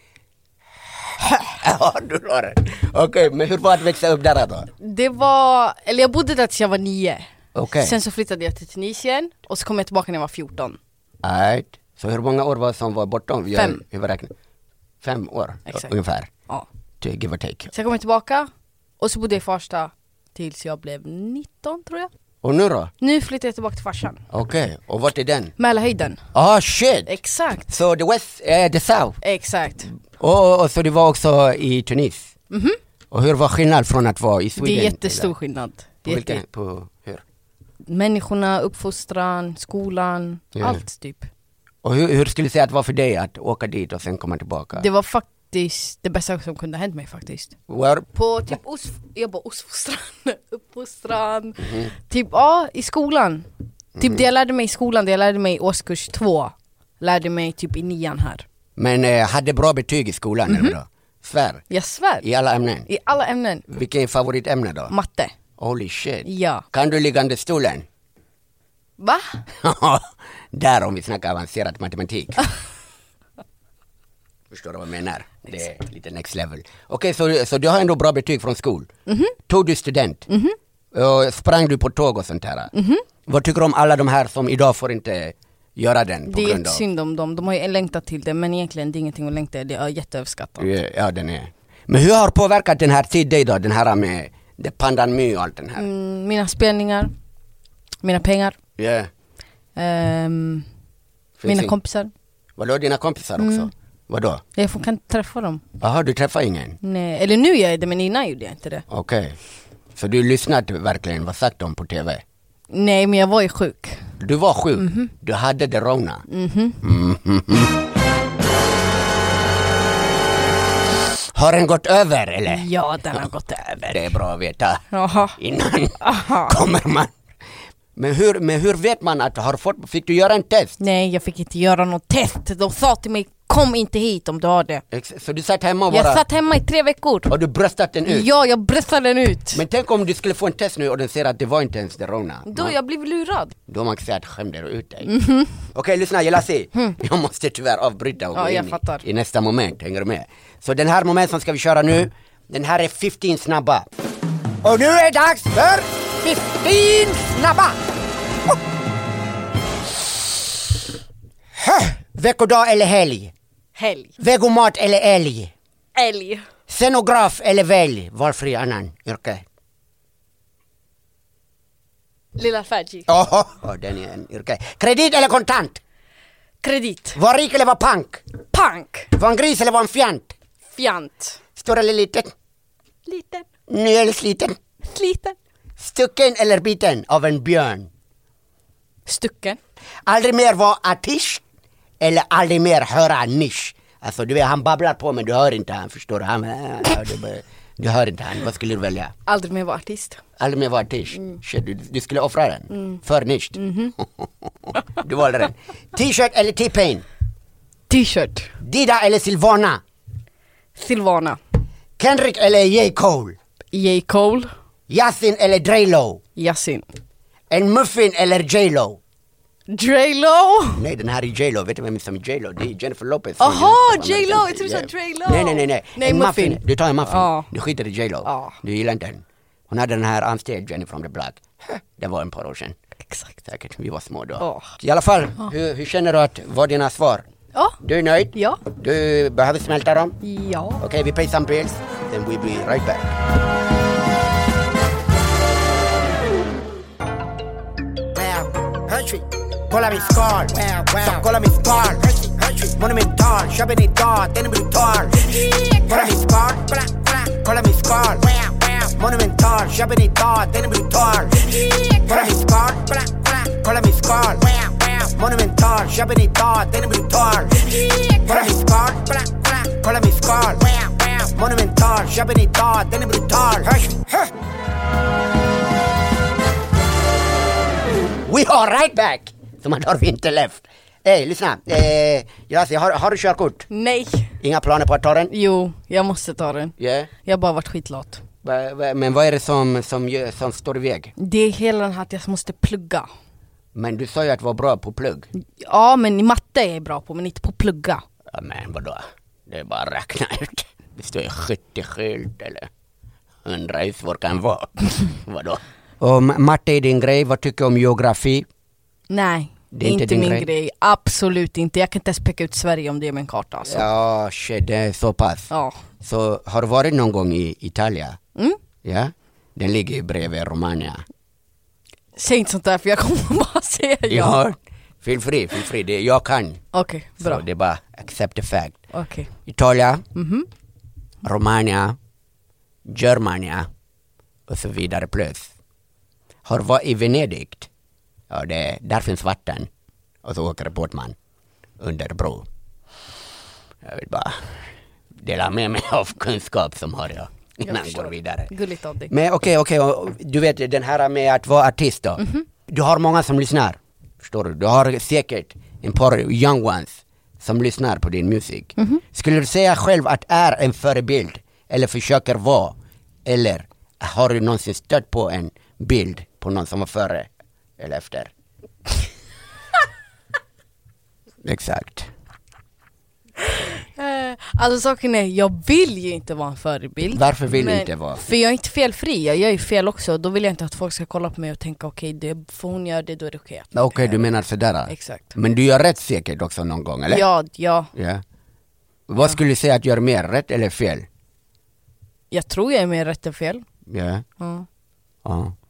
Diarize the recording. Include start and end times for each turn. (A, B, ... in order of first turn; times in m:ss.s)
0:01.2-0:04.7 A
0:04.8-0:10.8 B
0:07.5-0:08.0 A
0:11.2-0:14.3 A
0:13.5-0:13.8 B
0:15.0-0:16.3 A
0:17.0-0:17.7 A
0:17.7-0:22.1 B
0:22.4-0:22.9 A
0:23.0-0:24.2 B
0:24.3-0:25.5 A
0:25.6-0:26.2 B
0:26.3-0:27.1 A
0:27.1-0:27.7 B
0:27.7-0:29.2 A
0:29.2-0:29.9 B
0:30.1-0:32.3 A
0:32.5-0:32.8 B
0:33.1-0:35.3 A
0:34.6-0:36.4 B
0:36.0-0:37.2 A
0:37.9-0:41.3 B
0:40.6-0:40.8 A
0:41.8-0:44.9 A
0:44.7-0:47.6 B
0:47.7-0:48.1 A
0:48.1-0:58.5 B
0:58.8-1:01.6 A
1:00.5-1:00.8 B
1:01.7-1:02.2 B
1:02.2-1:02.9 A
1:02.9-1:03.7 B
1:03.7-1:04.9 A
1:04.9-1:05.4 B
1:05.6-1:07.9 A
1:06.2-1:06.6 B
1:09.0-1:09.5 B
1:09.5-1:12.5 A
1:14.5-1:18.9 A
1:19.1-1:19.4 B
1:19.5-1:20.3 A
1:20.3-1:20.6 B
1:20.9-1:22.7 A
1:22.7-1:23.0 B
1:23.3-1:26.8 A
1:26.3-1:30.7 B
1:30.6-1:35.9 A
1:35.8-1:37.1 B
1:38.0-1:38.6 B
1:38.8-1:39.1 A
1:39.8-1:40.7 B
1:41.4-1:41.8 A
1:41.4-1:42.1 B
1:42.6-1:44.4 A
1:43.4-1:43.7 B
1:44.6-1:45.6 B
1:45.8-1:46.8 A
1:46.8-1:48.8 B
1:48.9-1:49.4 A
1:50.0-1:52.2 A
1:52.7-1:54.1 B
1:54.2-1:56.2 A
1:54.8-1:55.1 B
1:56.3-1:56.8 B
1:56.8-1:57.8 A
2:01.3-2:04.8 A
2:02.5-2:03.9 B
2:04.9-2:05.4 B
2:05.4-2:07.2 A
2:06.0-2:06.6 B
2:08.0-2:10.8 A
2:10.8-2:14.8 B
2:14.9-2:16.2 A
2:15.9-2:17.3 B
2:17.3-2:18.3 A
2:18.0-2:19.6 B
2:19.5-2:22.8 A
2:22.5-2:23.6 B
2:23.7-2:25.1 A
2:25.1-2:25.6 B
2:25.7-2:33.8 A
2:28.3-2:29.0 B
2:34.6-2:37.8 A
2:41.6-2:43.3 A
2:43.8-2:44.2 B
2:44.2-2:45.5 A
2:46.0-2:46.5 B
2:46.7-2:49.4 A
2:52.4-2:53.1 B
2:53.1-2:55.8 A
2:56.6-2:57.2 B
2:57.2-2:58.2 A
2:58.5-2:59.1 B
2:59.1-3:00.4 A
3:00.7-3:01.4 B
3:01.6-3:02.3 A
3:03.1-3:03.4 B
3:03.7-3:04.6 A
3:04.9-3:05.4 B
3:05.8-3:07.9 A
3:09.1-3:09.6 B
3:10.1-3:11.4 A
3:12.0-3:19.1 A
3:19.3-3:20.2 B
3:20.4-3:27.0 A
3:22.7-3:23.0 B
3:23.6-3:24.0 B
3:27.9-3:28.5 B
3:28.6-3:29.8 A
3:30.8-3:31.4 B
3:32.0-3:33.4 A
3:33.7-3:34.5 B
3:34.9-3:36.2 A
3:36.4-3:36.9 B
3:37.5-3:39.0 A
3:39.7-3:40.9 B
3:40.7-3:52.8 A
3:43.4-3:47.5 B
3:48.2-3:48.6 B
3:53.1-3:53.4 B
3:53.4-3:57.2 A
3:54.4-3:54.7 B
3:57.6-3:57.8 B
3:57.8-4:00.2 A
3:58.3-3:58.6 B
4:00.2-4:00.8 B
4:00.8-4:03.2 A
4:08.1-4:34.3 A
4:38.2-4:43.7 A
4:43.7-4:44.4 B
4:44.4-4:45.3 A
4:45.3-4:48.2 B
4:46.8-4:47.1 A
4:48.4-4:51.1 A
4:51.2-4:53.1 B
4:53.7-4:55.3 A
4:55.6-4:58.0 B
4:58.3-5:02.7 A
5:03.4-5:08.5 A
5:09.1-5:13.8 B
5:09.7-5:10.5 A
5:13.7-5:18.2 A
5:15.5-5:15.8 B
5:18.8-5:21.0 A
5:22.2-5:24.5 B
5:24.1-5:26.6 A
5:26.7-5:27.4 B
5:27.2-5:28.8 A
5:28.9-5:29.3 B
5:29.4-5:30.0 A
5:30.2-5:30.5 B
5:31.2-5:32.0 A
5:32.9-5:33.7 A
5:34.5-5:35.5 A
5:36.5-5:37.7 A
5:38.3-5:39.7 A
5:40.2-5:41.2 A
5:41.8-5:42.5 A
5:43.8-5:44.7 A
5:45.2-5:48.5 A
5:47.6-5:49.1 B
5:49.1-6:02.7 A
5:52.2-5:52.5 B
5:58.8-5:59.0 B
6:03.2-6:08.3 A
6:11.4-6:12.1 A
6:13.5-6:24.3 B
6:17.1-6:18.2 A
6:23.7-6:27.3 A
6:24.9-6:25.4 B
6:27.1-6:27.9 B
6:27.9-6:28.2 A
6:29.1-6:31.1 A
6:32.3-6:33.6 B
6:33.9-6:34.2 A
6:34.4-6:34.7 B
6:35.2-6:35.6 A